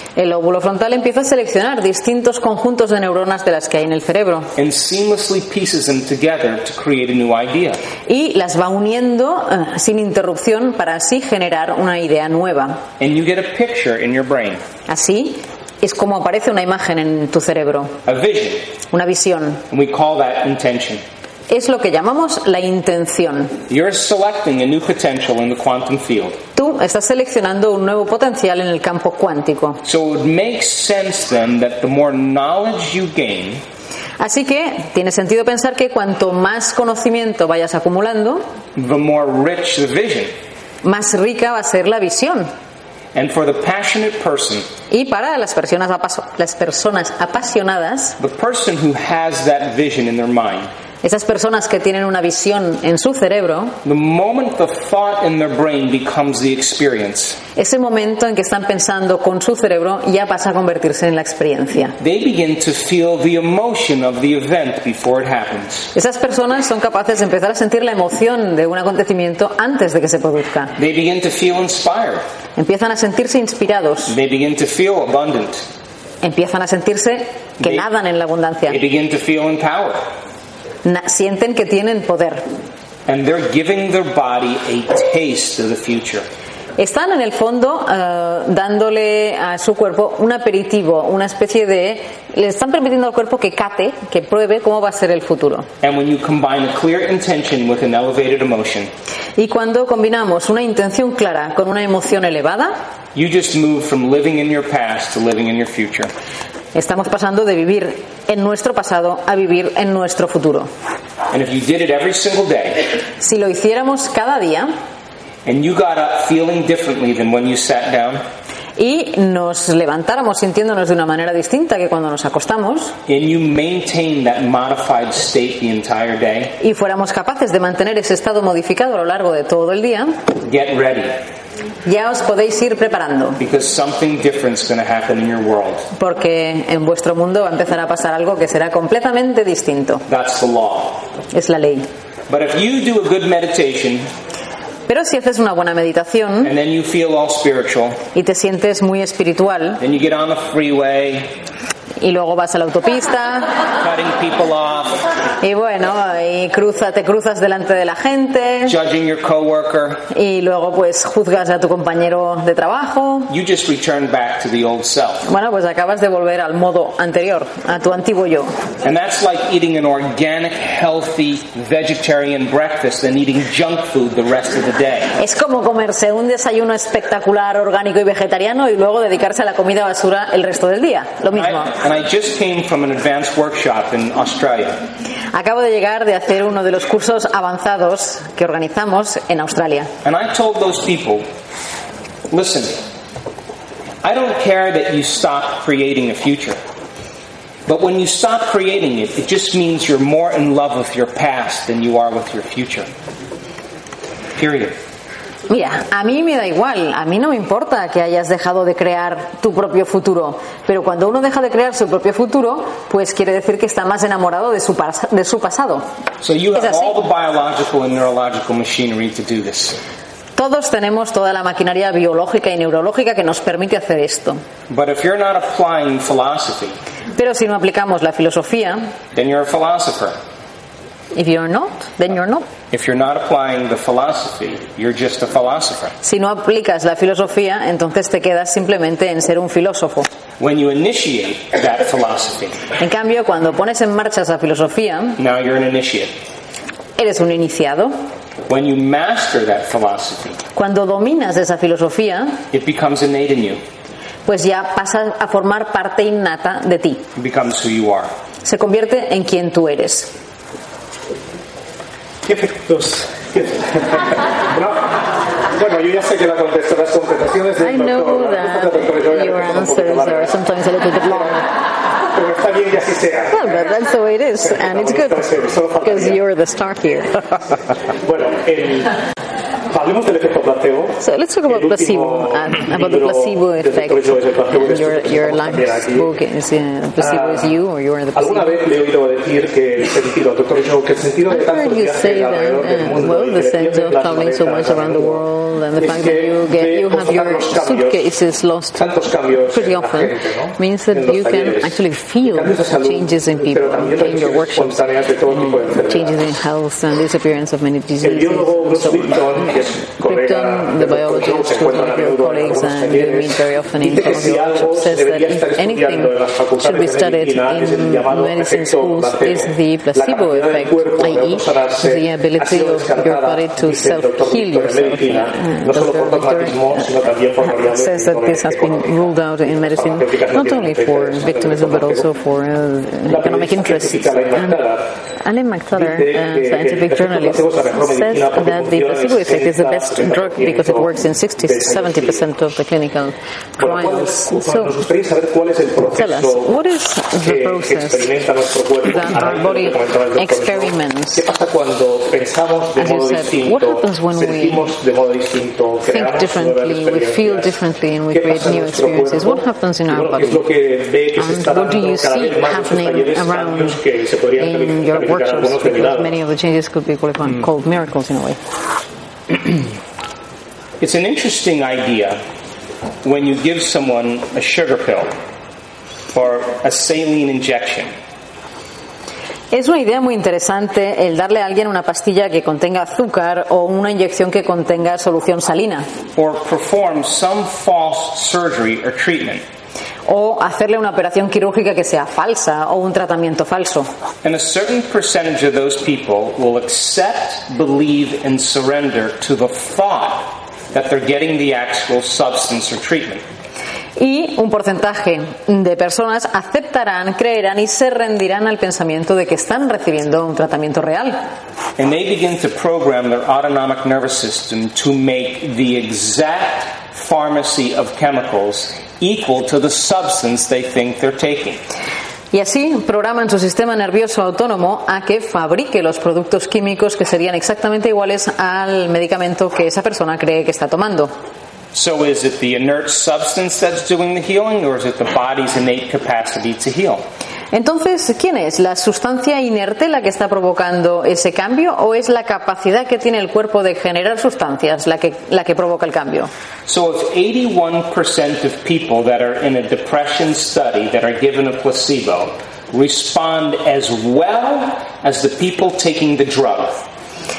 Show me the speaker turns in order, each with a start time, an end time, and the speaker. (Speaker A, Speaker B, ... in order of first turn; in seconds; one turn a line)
Speaker A: 0.1-4.5
Speaker B: 4.5-7.8
Speaker A: 8.1-12.8
Speaker B: 13.0-14.6
Speaker A: 14.9-18.0
Speaker B: 18.1-18.6
Speaker A: 18.9-19.6
Speaker B: 19.7-21.0
Speaker A: 21.5-23.6
Speaker B: 23.7-26.4
Speaker A: 26.6-29.8
Speaker B: 29.8-33.6
Speaker A: 34.2-38.4
Speaker B: 38.8-40.3
Speaker A: 40.8-42.5
Speaker B: 43.1-44.7
Speaker A: 44.9-48.2
Speaker B: 48.2-50.7
Speaker A: 51.0-53.8
Speaker B: 53.8-57.4
Speaker A: 57.5-62.0
Speaker B: 62.0-65.9
Speaker A: 65.9-70.8
Speaker B: 70.8-72.2
Speaker A: 72.6-74.1
Speaker B: 74.1-75.7
Speaker A: 76.2-78.8
Speaker B: 77.6-77.8
Speaker B: 78.7-80.0
Speaker A: 80.8-82.4
Speaker B: 83.0-86.2
Speaker A: 86.8-95.7
Speaker B: 95.8-98.9
Speaker A: 99.4-102.7
Speaker B: 103.1-106.1
Speaker A: 106.7-110.7
Speaker B: 111.3-112.9
Speaker A: 113.2-114.7
Speaker B: 115.4-118.2
Speaker A: 118.8-123.0
Speaker B: 123.1-126.6
Speaker A: 126.6-130.2
Speaker B: 130.4-131.2
Speaker A: 131.8-133.4
Speaker B: 133.4-135.9
Speaker A: 135.9-140.0
Speaker B: 140.1-141.0
Speaker A: 141.3-141.9
Speaker B: 142.3-144.1
Speaker A: 144.9-146.5
Speaker B: 146.4-148.0
Speaker A: 148.1-149.8
Speaker B: 149.8-151.3
Speaker A: 152.0-153.6
Speaker B: 153.8-155.0
Speaker A: 155.4-158.7
Speaker B: 158.7-160.0
Speaker A: 160.1-163.3
Speaker B: 163.3-165.2
Speaker A: 165.2-168.5
Speaker B: 168.8-175.1
Speaker A: 175.2-181.7
Speaker B: 181.3-184.8
Speaker A: 185.3-189.9
Speaker B: 190.0-191.3
Speaker B: 192.3-192.8
Speaker B: 194.0-196.6
Speaker B: 197.7-202.9
Speaker B: 204.4-204.8
Speaker A: 205.5-215.9
Speaker B: 216.2-219.8
Speaker A: 216.5-217.0
Speaker A: 220.3-224.4
Speaker B: 224.7-226.8
Speaker A: 227.2-228.9
Speaker B: 229.1-230.2
Speaker A: 231.1-232.5
Speaker B: 232.7-235.9
Speaker A: 236.0-240.1
Speaker B: 240.4-242.6
Speaker A: 242.8-245.2
Speaker B: 245.2-246.1
Speaker A: 247.0-247.9
Speaker B: 248.5-250.4
Speaker A: 250.5-252.4
Speaker B: 252.5-253.6
Speaker A: 254.2-257.1
Speaker B: 257.1-258.1
Speaker A: 258.4-260.1
Speaker C: 262.2-270.3
Speaker A: 267.6-271.5
Speaker C: 271.1-271.3
Speaker C: 272.1-273.7
Speaker A: 273.3-277.4
Speaker C: 274.4-276.2
Speaker C: 278.0-278.9
Speaker C: 279.7-286.1
Speaker A: 281.0-288.6
Speaker C: 287.0-287.5
Speaker C: 288.1-295.2
Speaker A: 291.3-298.8
Speaker C: 295.8-298.0
Speaker C: 298.8-306.3
Speaker A: 299.5-304.8
Speaker A: 305.3-326.9
Speaker C: 308.0-332.1
Speaker A: 327.5-334.6
Speaker C: 333.1-334.9
Speaker A: 335.2-344.7
Speaker C: 335.7-342.2
Speaker C: 343.6-346.6
Speaker A: 345.9-348.1
Speaker C: 347.2-357.5
Speaker A: 348.8-351.2
Speaker A: 352.8-354.7
Speaker A: 355.9-360.4
Speaker C: 358.1-366.1
Speaker A: 361.1-363.8
Speaker A: 364.4-368.4
Speaker B: 370.8-372.2
Speaker B: 373.0-375.1
Speaker B: 376.1-377.9
Speaker A: 379.5-385.9
Speaker B: 386.1-389.4
Speaker A: 390.1-393.9
Speaker B: 394.2-403.2
Speaker A: 404.0-411.2
Speaker B: 411.8-421.6
Speaker A: 422.3-431.1
Speaker B: 431.7-437.0
Speaker A: 437.5-446.3
Speaker B: 446.6-456.8